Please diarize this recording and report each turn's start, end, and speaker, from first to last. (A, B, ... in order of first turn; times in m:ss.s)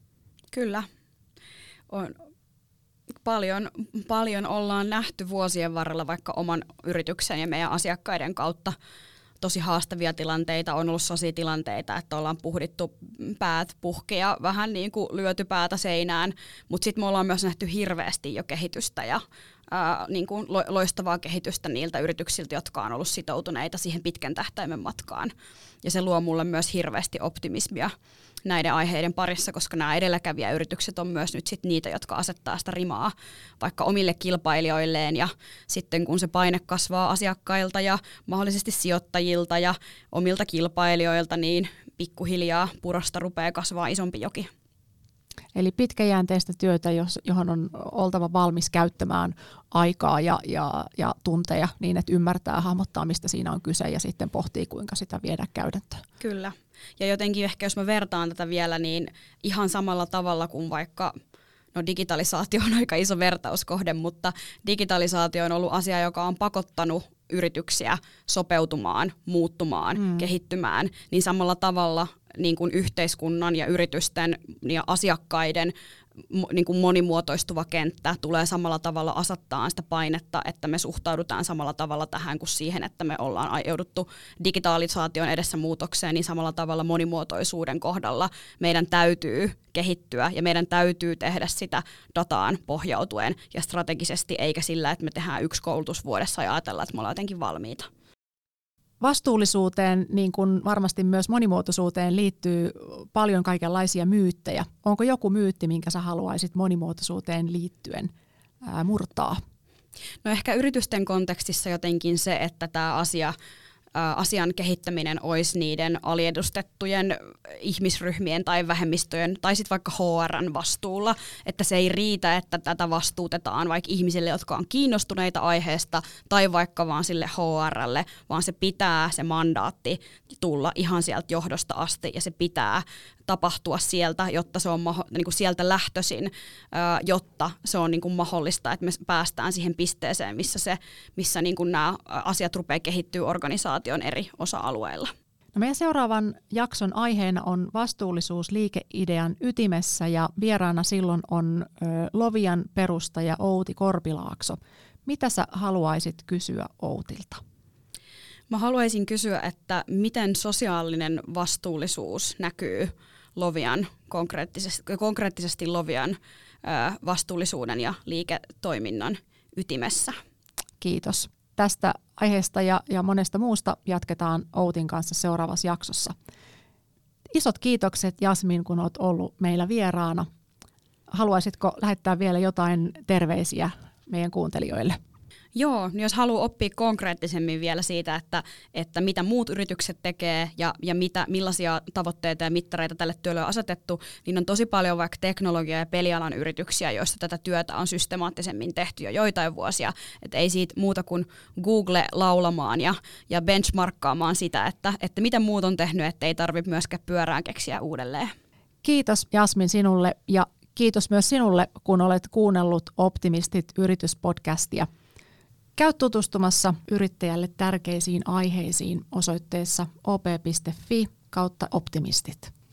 0:00.5-0:00.9 A
0:01.9-0:02.2 A
0:03.2-0:08.7 A
0:09.4-0:25.3 A
0:25.8-0:27.9 A
0:28.4-0:44.5 A
0:45.5-0:56.0 B
0:56.2-1:01.1 A
1:01.7-1:15.7 A
1:16.3-1:37.9 A
1:39.0-1:48.1 B
1:48.6-1:49.4 B
1:50.2-1:53.3 A
1:53.9-2:25.1 A
2:25.5-2:37.4 B
2:38.5-2:50.2 A
2:50.8-2:56.1 B
2:57.3-3:00.3 B
3:01.1-3:05.0 B
3:05.5-3:28.3 A
3:28.8-3:34.9 B
3:35.8-3:42.5 B